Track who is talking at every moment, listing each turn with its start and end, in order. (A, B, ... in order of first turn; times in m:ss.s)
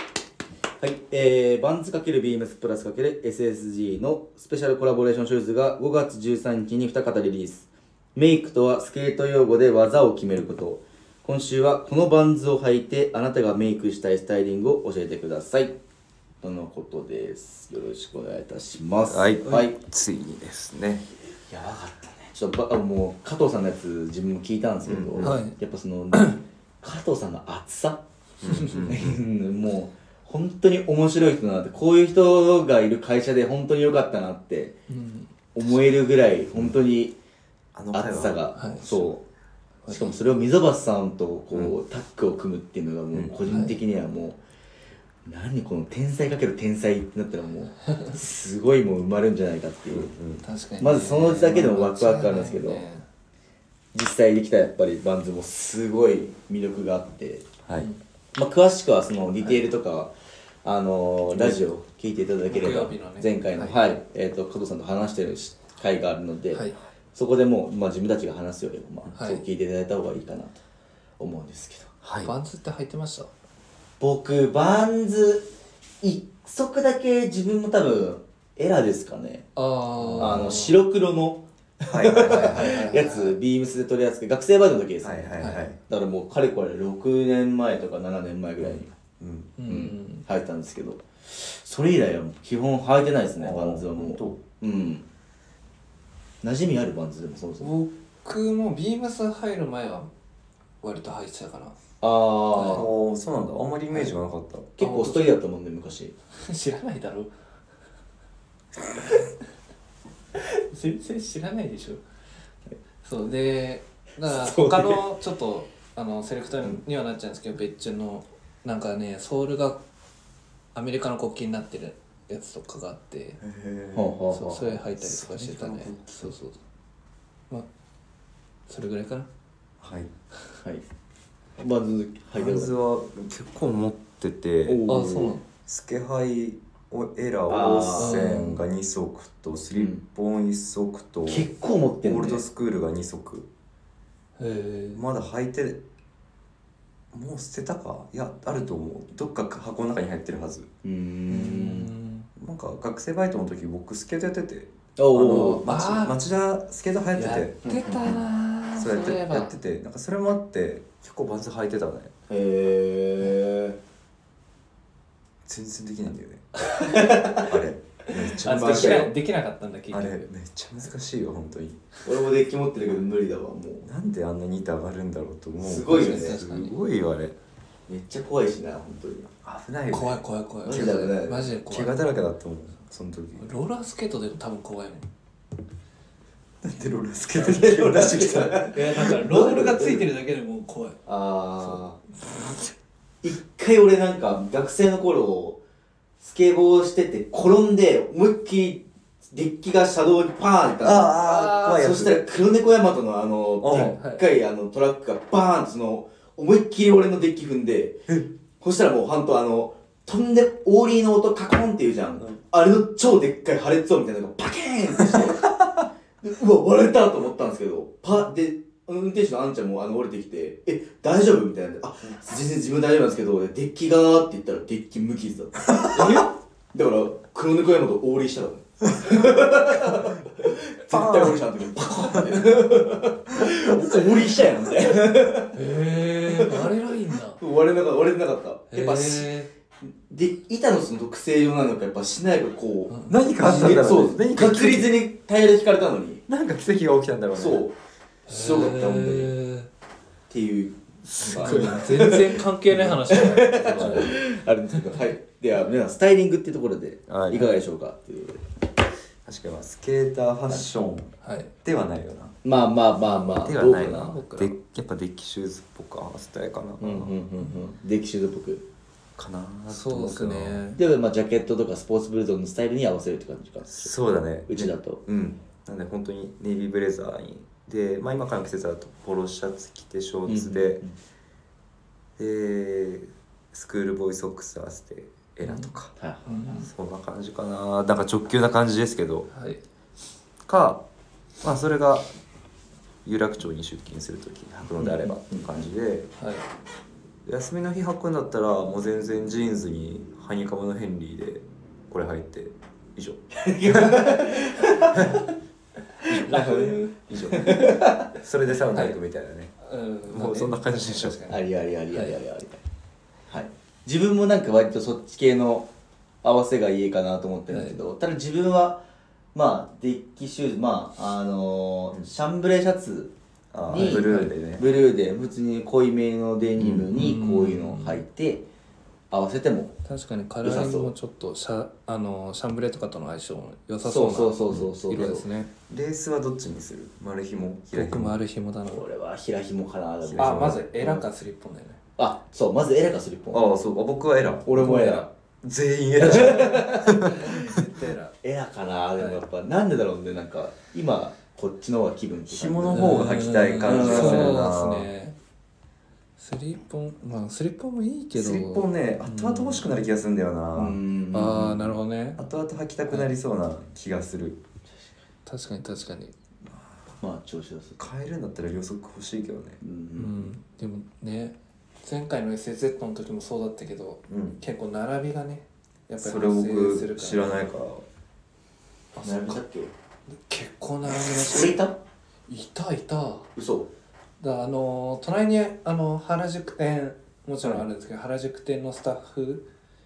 0:00.8-0:15.8 A
0:16.4-0:19.8 A
0:19.1-0:21.0 B
0:21.5-0:28.0 A
0:24.9-0:25.4 B
0:25.2-0:25.6 C
0:26.1-0:26.4 C
0:28.4-0:29.2 B
0:28.5-0:28.8 C
0:28.7-0:34.8 A
0:34.9-0:35.3 C
0:35.5-0:37.2 A
0:37.7-0:39.1 B
0:37.9-0:39.2 A
0:38.6-0:39.0 C
0:39.8-0:40.2 C
0:39.9-0:44.4 A
0:43.5-0:43.8 C
0:45.3-0:50.1 A
0:49.9-0:50.5 B
0:50.4-0:53.0 C
0:50.8-0:52.8 A
0:53.9-0:57.5 A
0:58.4-1:00.1 A
1:00.6-1:10.6 A
1:02.5-1:03.8 C
1:06.5-1:06.8 C
1:09.2-1:09.4 C
1:11.2-1:11.9 A
1:12.0-1:12.3 B
1:12.2-1:13.3 C
1:14.0-1:15.5 A
1:16.0-1:19.5 A
1:19.6-1:20.8 C
1:20.0-1:20.6 B
1:20.2-1:29.0 A
1:21.9-1:22.8 B
1:22.3-1:23.4 C
1:25.0-1:25.8 B
1:25.4-1:25.7 C
1:28.6-1:29.5 B
1:29.6-1:30.2 C
1:29.7-1:35.0 A
1:33.4-1:34.4 B
1:36.4-1:37.7 A
1:37.6-1:40.1 C
1:40.8-1:41.8 C
1:42.0-1:42.9 A
1:42.6-1:42.9 C
1:42.7-1:44.7 B
1:44.8-1:46.1 A
1:44.8-1:45.4 C
1:46.4-1:47.3 C
1:50.3-1:52.0 C
1:53.0-1:59.8 C
1:54.2-1:55.0 A
2:00.8-2:03.4 C
2:03.4-2:06.3 B
2:03.9-2:04.6 A
2:04.3-2:06.6 C
2:08.7-2:09.3 C
2:09.8-2:10.1 B
2:11.6-2:12.7 A
2:12.4-2:14.8 B
2:14.6-2:15.4 A
2:14.9-2:15.4 C
2:15.7-2:23.5 B
2:17.5-2:18.2 A
2:18.0-2:18.6 C
2:19.7-2:20.0 A
2:21.3-2:22.4 A
2:24.4-2:25.0 C
2:24.9-2:25.8 B
2:27.1-2:30.7 B
2:30.8-2:31.9 A
2:31.3-2:32.3 C
2:32.4-2:38.2 B
2:35.0-2:35.7 A
2:35.6-2:36.2 C
2:37.2-2:39.5 C
2:37.6-2:38.1 A
2:38.8-2:42.1 B
2:42.3-2:43.8 A
2:45.4-2:46.5 B
2:46.8-2:47.5 A
2:47.4-2:49.2 B
2:48.1-2:50.3 C
2:48.4-2:49.1 A
2:49.9-2:51.8 B
2:52.0-2:53.9 A
2:53.8-2:57.4 B
2:55.6-2:56.4 A
2:55.9-2:56.8 C
2:57.9-2:59.3 A
2:59.4-3:01.2 B
2:59.9-3:02.0 C
3:00.7-3:01.6 A
3:01.7-3:03.5 B
3:03.4-3:05.1 C
3:06.6-3:09.3 B
3:07.4-3:10.1 A
3:08.7-3:11.0 C
3:11.1-3:12.0 A
3:13.2-3:15.6 A
3:16.2-3:28.1 A
3:20.8-3:22.2 B
3:23.6-3:24.0 B
3:23.7-3:24.3 C
3:28.6-3:35.5 A
3:36.2-3:55.6 A
3:45.7-3:46.1 B
3:46.0-3:46.2 C
3:50.9-3:52.6 B
3:55.5-3:57.4 C
3:56.2-3:56.7 A
3:57.4-4:06.2 A
3:58.7-3:59.5 C
4:02.9-4:04.0 C
4:03.1-4:05.0 B
4:06.3-4:07.6 B
4:07.4-4:07.8 A
4:08.3-4:09.7 C
4:08.3-4:09.3 A
4:10.3-4:18.4 A
4:11.2-4:11.9 B
4:11.2-4:14.2 C
4:13.8-4:14.1 B
4:17.1-4:17.5 B
4:19.3-4:22.4 B
4:21.2-4:21.5 C
4:22.4-4:24.2 A
4:23.4-4:27.1 B
4:23.8-4:24.6 C
4:26.8-4:28.7 A
4:29.2-4:30.7 B
4:29.7-4:30.8 C
4:30.8-4:33.9 A
4:33.7-4:40.8 B
4:34.5-4:35.0 A
4:40.3-4:41.0 A
4:42.2-4:45.9 B
4:45.4-4:45.7 C
4:46.0-4:46.7 A
4:46.3-4:46.6 C
4:46.6-4:49.3 B
4:49.3-4:49.6 C
4:50.5-4:50.8 B
4:51.4-4:52.1 B
4:53.0-4:56.1 B
4:54.8-4:55.5 A
4:56.2-4:56.5 C
4:57.3-5:04.1 B
5:03.3-5:05.2 A
5:06.0-5:08.1 A
5:06.0-5:09.5 B
5:06.3-5:06.9 C
5:08.7-5:09.0 C
5:09.6-5:12.2 C
5:10.1-5:11.2 B
5:11.3-5:12.6 A
5:13.3-5:15.7 A
5:16.2-5:18.8 A
5:17.5-5:17.8 C
5:19.3-5:23.1 A
5:23.5-5:24.7 B
5:23.7-5:28.5 A
5:23.7-5:24.3 C
5:26.6-5:26.9 B
5:26.9-5:28.0 C
5:29.1-5:29.8 A
5:29.8-5:35.5 C
5:30.4-5:30.9 A
5:33.8-5:35.3 A
5:35.7-5:38.1 B
5:37.7-5:38.9 C
5:38.7-5:40.7 A
5:40.0-5:41.0 B
5:40.2-5:41.8 C
5:42.0-5:43.4 A
5:43.3-5:47.6 B
5:44.5-5:45.1 A
5:44.6-5:45.0 C
5:46.0-5:47.5 A
5:46.0-5:48.1 C
5:48.2-5:53.1 A
5:49.0-5:49.2 C
5:52.3-5:54.9 B
5:52.7-5:55.2 C
5:53.6-5:54.4 A
5:56.2-5:59.7 C
5:58.1-6:00.8 B
6:00.6-6:01.7 A
6:01.1-6:02.2 C
6:02.2-6:04.4 B
6:05.3-6:06.2 C
6:06.5-6:06.8 B
6:07.0-6:07.8 A
6:07.8-6:09.6 B
6:09.6-6:10.3 A
6:10.0-6:17.5 C
6:14.1-6:14.4 B
6:16.0-6:17.8 B
6:18.9-6:19.4 C
6:19.0-6:19.7 A
6:20.1-6:21.6 C
6:20.9-6:21.8 A
6:22.3-6:23.3 C
6:23.4-6:23.7 A
6:24.2-6:29.5 C